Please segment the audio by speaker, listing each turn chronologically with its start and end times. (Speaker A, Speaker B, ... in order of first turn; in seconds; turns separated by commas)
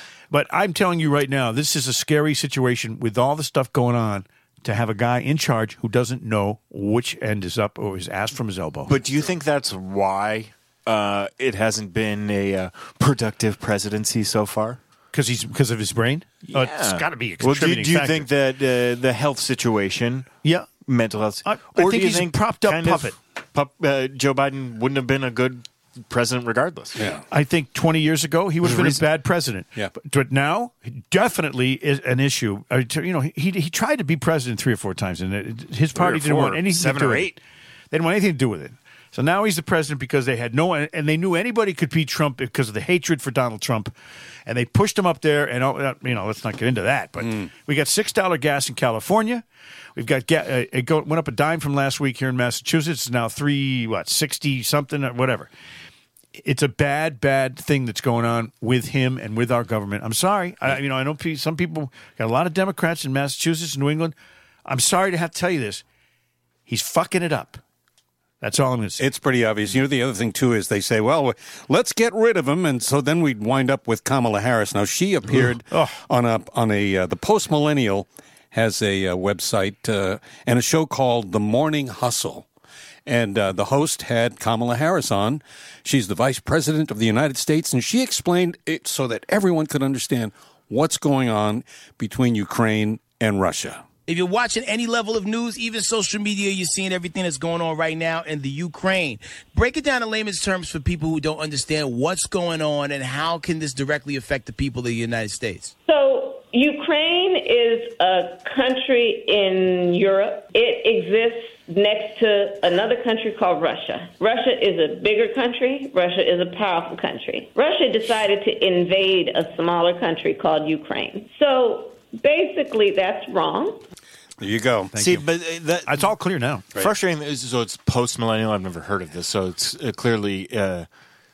Speaker A: 0.3-8.9, Speaker B: 8.9-14.8, Speaker A: 15.1-18.3, Speaker B: 16.5-20.3, Speaker A: 20.4-20.7, Speaker B: 20.9-27.0, Speaker A: 21.4-23.1, Speaker C: 27.0-27.2, Speaker A: 27.3-37.4, Speaker B: 28.6-29.0, Speaker B: 35.9-37.3, Speaker A: 37.9-43.9, Speaker A: 44.5-49.4, Speaker A: 50.0-55.5, Speaker A: 56.4-65.8, Speaker A: 66.7-67.6, Speaker A: 68.4-69.1, Speaker C: 69.0-82.5, Speaker A: 75.7-76.0, Speaker C: 83.0-93.8, Speaker D: 94.1-105.7, Speaker E: 105.8-123.8, Speaker C: 124.4-124.9, Speaker A: 124.9-125.3, Speaker B: 125.0-126.1, Speaker A: 125.8-126.7, Speaker B: 126.7-130.9